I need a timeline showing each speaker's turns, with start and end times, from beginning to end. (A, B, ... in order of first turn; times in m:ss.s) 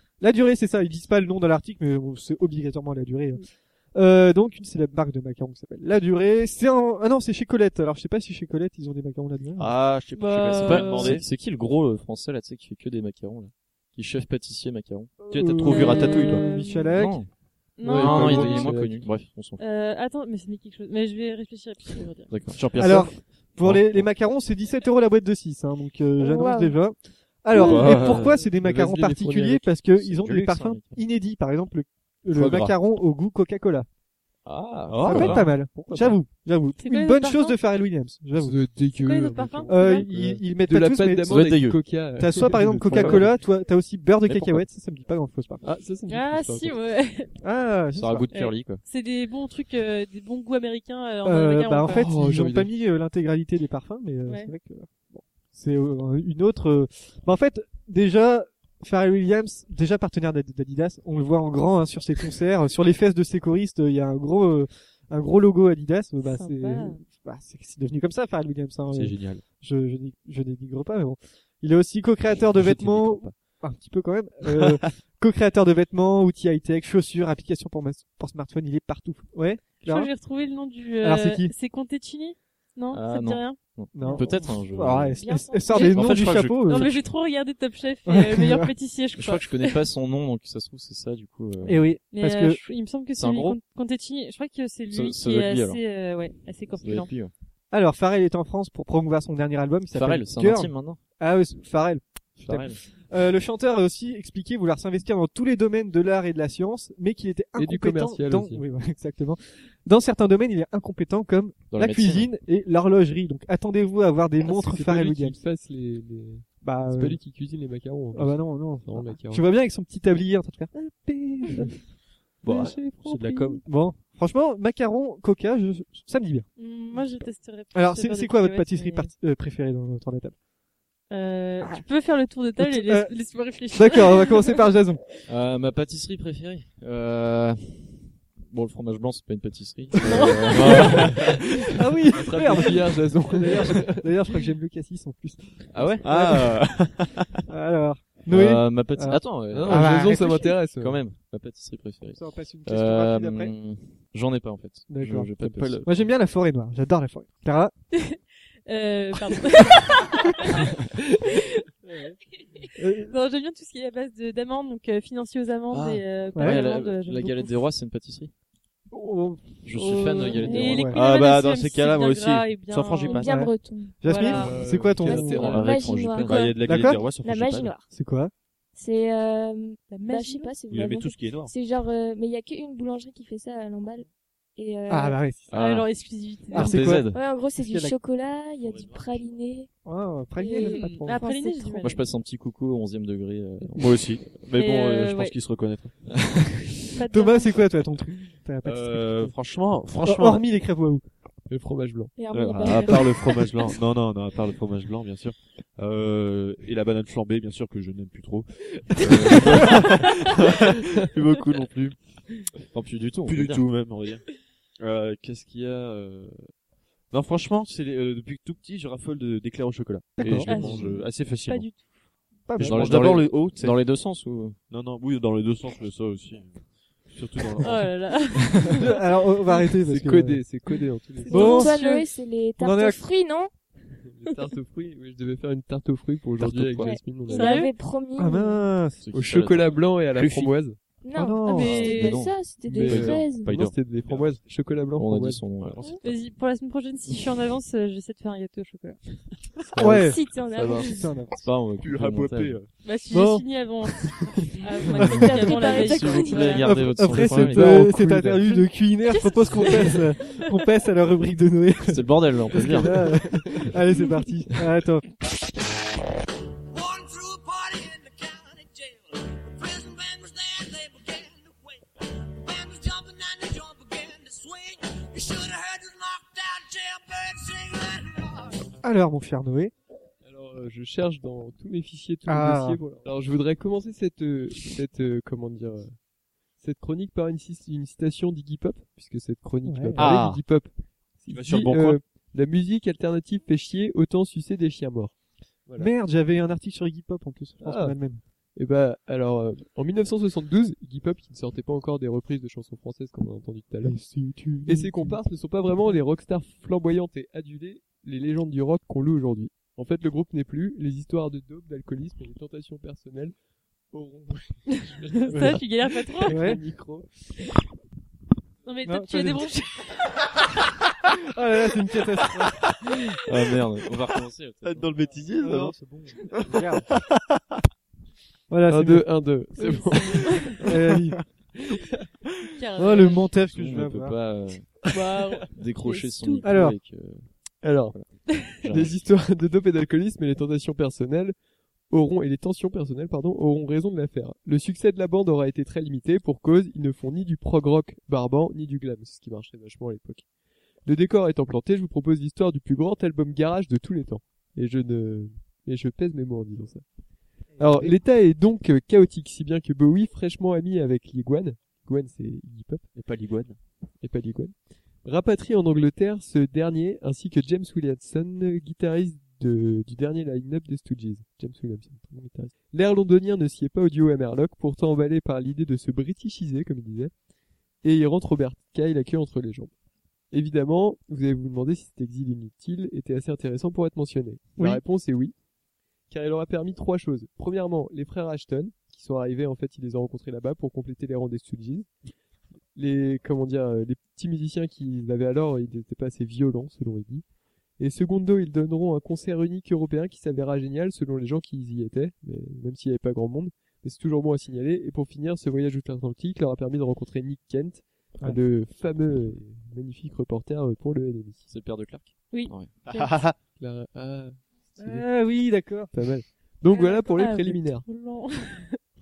0:00.2-0:09.7 A
0:09.6-0:11.3 B
0:10.1-0:11.2 C
0:10.5-0:15.1 D
0:15.2-0:17.2 A
0:15.3-0:16.5 B
0:15.7-0:17.0 C
0:16.9-0:17.3 D
0:17.8-0:18.7 C
0:17.8-0:19.1 E
0:17.9-0:19.6 D
0:19.6-0:22.4 C
0:22.3-0:22.6 D
0:22.5-0:24.0 B
0:22.8-0:33.9 A
0:26.2-0:26.8 F
0:27.5-0:28.4 B
0:27.5-0:27.9 F
0:28.4-0:29.7 E
0:30.0-0:31.0 D
0:32.3-0:32.8 B
0:34.5-0:35.5 D
0:34.9-0:35.5 B
0:35.0-0:38.6 A
0:35.8-0:36.2 E
0:36.8-0:37.6 C
0:38.4-0:43.4 E
0:39.0-0:40.1 C
0:39.7-0:41.5 A
0:41.3-0:41.8 D
0:42.2-0:45.6 A
0:42.9-0:43.3 D
0:44.3-0:44.6 D
0:45.6-0:46.8 E
0:46.1-0:47.4 C
0:47.4-0:48.3 A
0:48.0-0:48.8 D
0:48.3-0:52.1 C
0:51.2-1:20.1 A
0:51.9-0:52.7 E
0:54.3-0:54.5 C
1:06.2-1:07.0 C
1:08.9-1:09.4 B
1:12.6-1:13.3 B
1:14.5-1:14.8 B
1:19.8-1:24.2 C
1:21.0-1:21.5 A
1:22.9-1:25.2 D
1:24.0-1:26.9 A
1:25.2-1:25.9 F
1:25.8-1:27.0 B
1:26.6-1:29.8 C
1:28.1-1:28.7 A
1:29.2-1:31.9 D
1:31.6-1:32.6 A
1:32.1-1:37.1 C
1:33.2-1:33.6 D
1:34.9-1:35.8 D
1:36.8-1:37.3 D
1:37.7-1:55.4 A
1:39.9-1:41.0 D
1:42.4-1:42.8 D
1:47.6-1:48.7 E
1:51.7-1:52.3 D
1:54.4-1:59.5 E
1:56.6-1:57.2 A
1:58.1-2:01.8 A
2:02.4-2:03.6 B
2:03.1-2:03.6 C
2:03.6-2:06.5 A
2:06.6-2:09.1 C
2:07.7-2:10.4 A
2:11.1-2:14.6 C
2:12.6-2:15.0 A
2:15.3-2:21.4 D
2:20.0-2:21.1 C
2:20.6-2:21.2 B
2:21.8-2:26.6 A
2:22.1-2:24.0 E
2:25.7-2:26.4 D
2:26.0-2:27.4 B
2:27.5-2:30.5 A
2:28.3-2:35.9 D
2:29.5-2:31.0 E
2:32.1-2:33.5 A
2:34.9-2:35.3 A
2:35.4-2:36.0 B
2:35.8-2:37.7 A
2:37.9-2:40.7 C
2:41.3-2:41.7 C
2:41.8-2:42.2 A
2:42.6-2:47.6 C
2:42.8-2:43.1 A
2:45.7-2:48.3 D
2:46.4-2:46.6 A
2:48.9-2:49.7 A
2:49.6-2:50.9 D
2:49.8-2:53.3 C
2:50.4-2:51.0 A
2:50.9-2:53.3 B
2:53.0-2:54.2 F
2:53.2-2:55.6 A
2:54.0-2:54.6 C
2:54.2-2:56.0 E
2:55.0-2:57.9 F
2:55.4-2:56.5 D
2:55.7-2:57.7 B
2:56.6-2:57.0 A
2:57.9-2:58.3 A
2:58.8-3:05.2 F
2:59.9-3:00.6 C
3:00.7-3:01.5 B
3:04.9-3:05.5 A
3:05.5-3:05.9 D
3:05.5-3:06.9 C
3:06.5-3:07.2 D
3:06.5-3:08.0 A
3:07.0-3:09.7 F
3:08.6-3:09.0 B
3:09.8-3:11.9 A
3:10.4-3:11.3 F
3:10.5-3:12.1 C
3:11.8-3:14.0 D
3:13.8-3:16.1 B
3:14.5-3:15.4 C
3:17.0-3:17.6 C
3:17.1-3:19.4 A
3:18.6-3:20.4 B
3:20.0-3:21.0 A
3:21.5-3:22.1 E
3:22.2-3:23.8 F
3:22.3-3:32.0 B
3:32.7-3:33.7 D
3:33.2-3:34.2 B
3:34.8-3:36.5 B
3:37.1-3:41.7 B
3:40.2-3:40.8 A
3:40.5-3:42.0 C
3:42.5-3:42.9 A
3:42.6-3:43.8 B
3:42.6-3:44.6 D
3:44.7-3:48.6 B
3:47.6-3:48.9 C
3:48.8-3:50.5 A
3:49.8-3:51.6 E
3:51.3-3:52.1 C
3:51.3-3:53.5 F
3:51.3-3:52.0 A
3:52.6-3:53.0 A
3:54.1-3:57.6 E
3:56.4-3:57.0 D
3:56.8-3:58.6 F
3:57.3-3:57.8 C
3:58.2-3:59.0 A
3:59.0-4:00.5 D
3:59.1-4:00.8 E
4:01.0-4:03.5 F
4:01.2-4:01.9 A
4:01.5-4:02.2 C
4:01.6-4:04.0 D
4:02.6-4:05.4 E
4:04.1-4:04.3 B
4:04.9-4:06.0 D
4:05.6-4:06.2 B
4:06.0-4:09.2 C
4:09.7-4:10.2 D
4:09.8-4:11.4 A
4:09.8-4:11.2 F
4:10.6-4:10.8 E
4:11.4-4:12.6 D
4:11.8-4:12.7 B
4:12.8-4:16.8 C
4:13.1-4:13.5 A
4:14.9-4:15.6 A
4:15.1-4:16.7 F
4:15.5-4:17.9 D
4:16.6-4:25.1 A
4:17.0-4:18.6 E
4:19.0-4:20.6 C
4:21.9-4:23.0 D
4:23.1-4:23.7 E
4:26.7-4:31.8 G
4:32.3-4:38.6 G
4:38.8-4:39.7 A
4:40.2-4:46.0 E
4:42.3-4:42.8 A
4:46.6-4:55.2 E
4:49.6-4:50.0 A
4:50.0-4:50.4 B
4:51.3-4:52.0 B
4:55.8-4:58.2 A
4:57.6-4:58.0 E
4:58.6-5:04.0 E
5:03.8-5:05.2 A
5:04.6-5:13.4 E
5:13.9-5:17.2 E
5:14.7-5:16.5 C
5:15.3-5:15.6 A
5:16.3-5:16.6 A
5:18.6-5:20.1 C
5:18.8-5:19.4 A
5:21.2-5:22.6 A
5:23.3-5:24.9 D
5:24.6-5:25.8 B
5:25.4-5:26.9 A
5:26.3-5:27.4 B
5:28.5-5:29.2 A
5:28.7-5:30.7 E
5:29.6-5:30.6 C
5:30.6-5:31.2 A
5:32.6-5:33.3 C
5:32.8-5:34.2 A
5:33.5-5:34.9 D
5:34.9-5:36.6 C
5:35.5-5:39.0 D
5:36.4-5:36.8 A
5:37.6-5:38.0 E
5:38.5-5:41.4 E
5:41.9-5:50.2 E
5:50.8-5:56.8 E
5:57.6-6:02.8 E
6:02.9-6:03.6 B
6:04.0-6:17.1 E
6:17.8-6:19.7 E
6:20.3-6:25.3 E
6:24.6-6:24.8 A
6:26.1-6:31.9 E
6:32.8-6:37.2 E
6:37.8-6:51.5 E
6:51.5-6:52.7 D
6:52.3-6:53.1 C
6:52.9-6:53.3 B
6:53.6-6:55.1 E
6:54.8-6:55.9 A
6:55.9-6:57.9 E
6:56.7-6:58.8 C